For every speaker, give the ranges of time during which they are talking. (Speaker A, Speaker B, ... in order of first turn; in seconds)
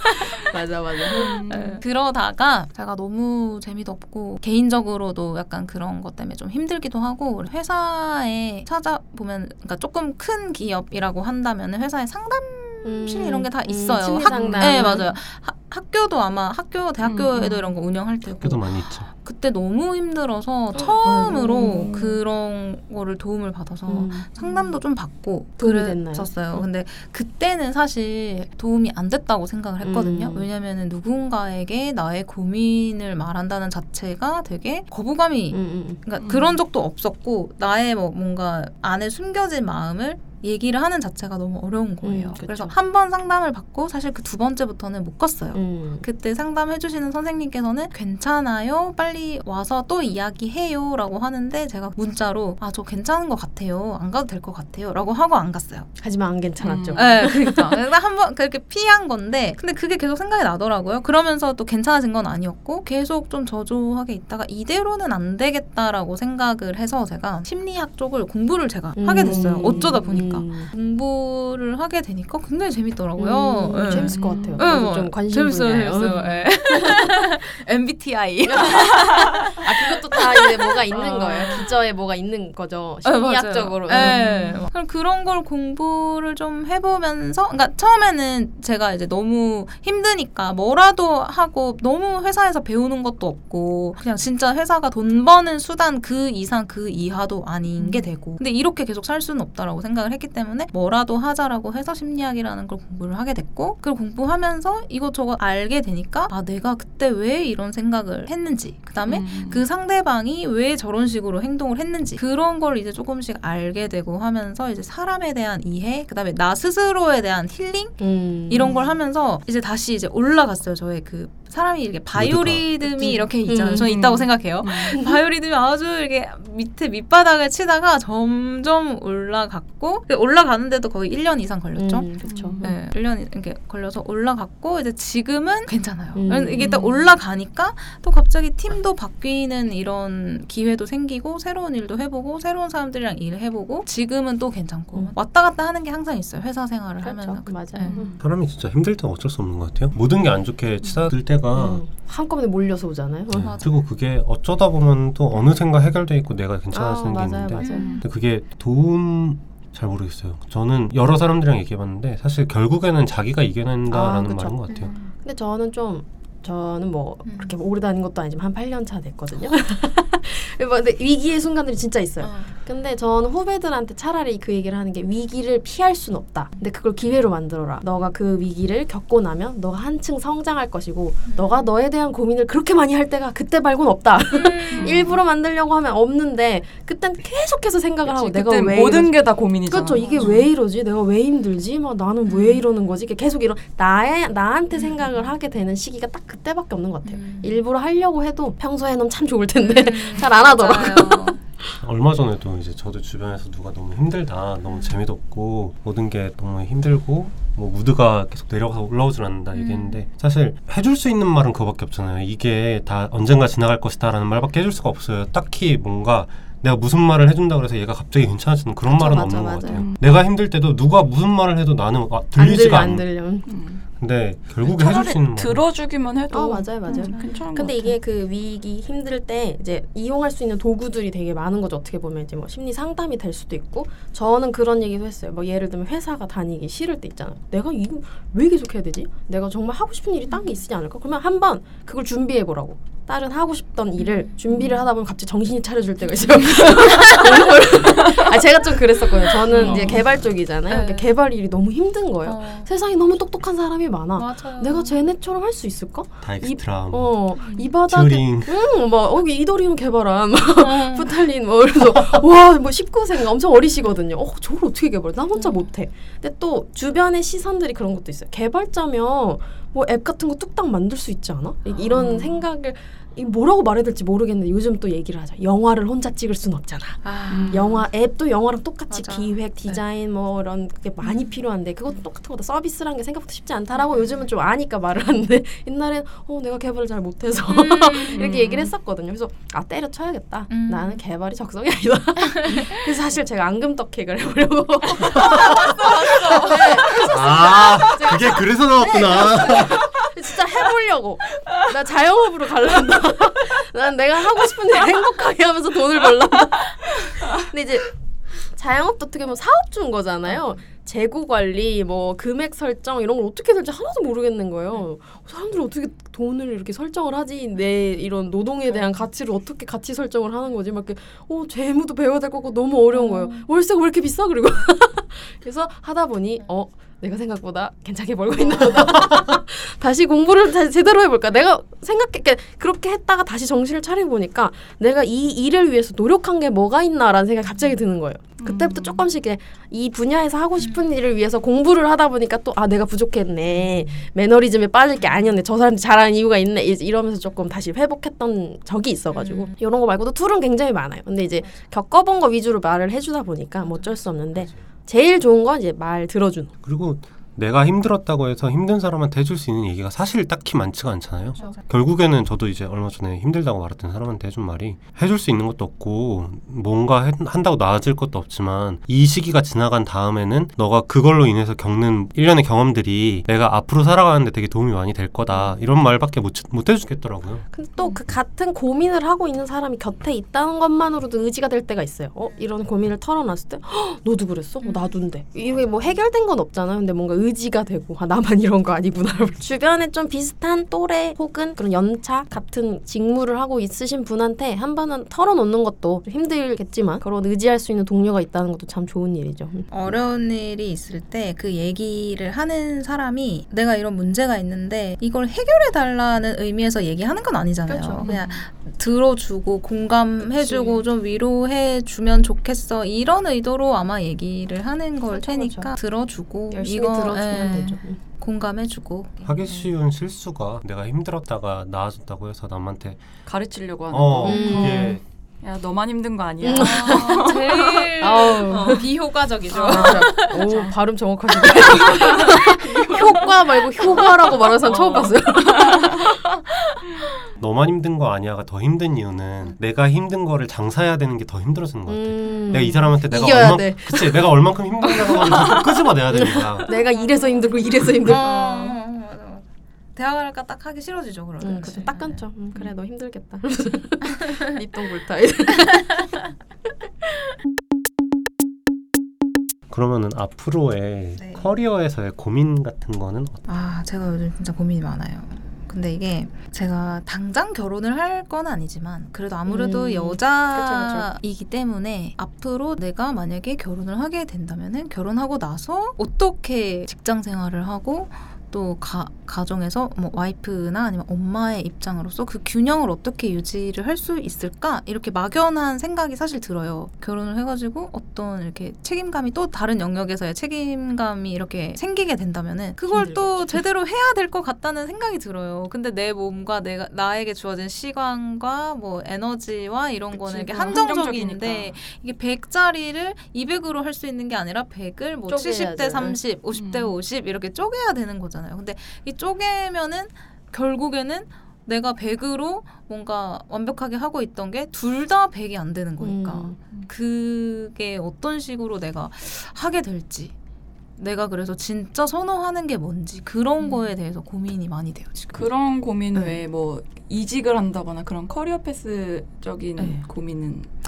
Speaker A: 0.4-1.3, 12.8-15.1, 20.7-21.7, 23.9-24.2, 25.6-26.6, 29.8-30.5, 35.5-36.0, 42.0-42.7, 45.5-46.0, 56.0-57.8, 69.0-70.7, 73.2-76.2, 76.7-77.1, 78.4-79.0, 79.6-84.3, 118.0-118.9, 123.0-123.9, 124.9-125.2, 131.8-132.8, 136.1-136.8, 147.0-148.1, 151.5-153.6, 156.7-157.8, 163.9-201.7, 218.8-219.8, 222.3-223.5, 226.3-356.5, 377.5-399.8, 407.6-408.1, 410.2-410.9, 415.1-415.7, 416.5-418.0, 424.2-425.0, 426.4-427.4, 428.0-428.9, 429.5-436.1, 441.9-448.7, 451.4-456.1, 469.5-471.1, 492.9-493.6, 500.1-500.8, 505.3-506.2, 516.0-516.6
Speaker B: 1.1-1.8, 14.2-14.9, 17.0-17.7, 21.3-22.2, 24.4-24.7, 36.2-36.6, 56.6-57.1, 69.2-70.0, 73.9-74.7, 76.0-76.5, 80.9-81.5, 84.0-84.6, 97.8-98.1, 109.0-109.7, 123.7-124.9, 132.2-132.7, 136.5-137.0, 147.8-148.2, 157.6-158.0, 184.7-185.1, 188.0-190.5, 219.6-220.0, 223.5-223.8, 224.6-228.0, 249.5-250.0, 277.3-277.8, 288.1-288.5, 338.4-339.0, 408.0-408.5, 423.2-428.0, 429.7-430.7, 431.4-436.1, 500.5-501.7, 506.5-506.9, 523.6-523.9, 525.3-530.7
Speaker C: 1.1-55.9, 56.9-81.8, 83.0-148.0, 153.4-153.8, 157.6-158.0, 164.7-165.1, 167.2-167.6, 172.2-172.6, 181.2-181.7, 184.3-185.1, 190.0-190.4, 192.2-192.6, 197.0-197.6, 199.6-201.4, 204.7-204.9, 209.5-210.0, 226.9-227.4, 244.0-244.7, 249.5-250.1, 250.7-251.1, 252.2-252.7, 254.2-255.0, 257.4-257.7, 260.6-261.2, 265.3-265.7, 271.6-272.4, 277.0-277.6, 278.9-279.8, 281.0-281.4, 287.5-288.7, 290.5-291.0, 292.2-292.7, 295.2-297.0, 322.9-323.4, 340.6-340.9, 345.0-345.3, 349.1-349.5, 353.6-354.4, 361.4-361.6, 384.6-385.0, 385.5-386.0, 399.7-419.7, 424.3-425.0, 426.5-430.7, 442.3-442.6, 446.7-447.4, 448.0-449.4, 449.9-452.6, 461.1-461.5, 463.5-520.3, 521.0-525.5, 526.1-526.4, 529.8-530.0
Speaker D: 18.2-19.1, 122.1-122.8, 148.2-151.8, 153.3-164.9, 201.8-223.1, 224.0-225.6, 256.2-257.2, 257.9-258.6, 297.1-299.8, 356.6-377.4, 419.2-423.0, 423.9-425.0, 437.4-446.7, 459.7-463.4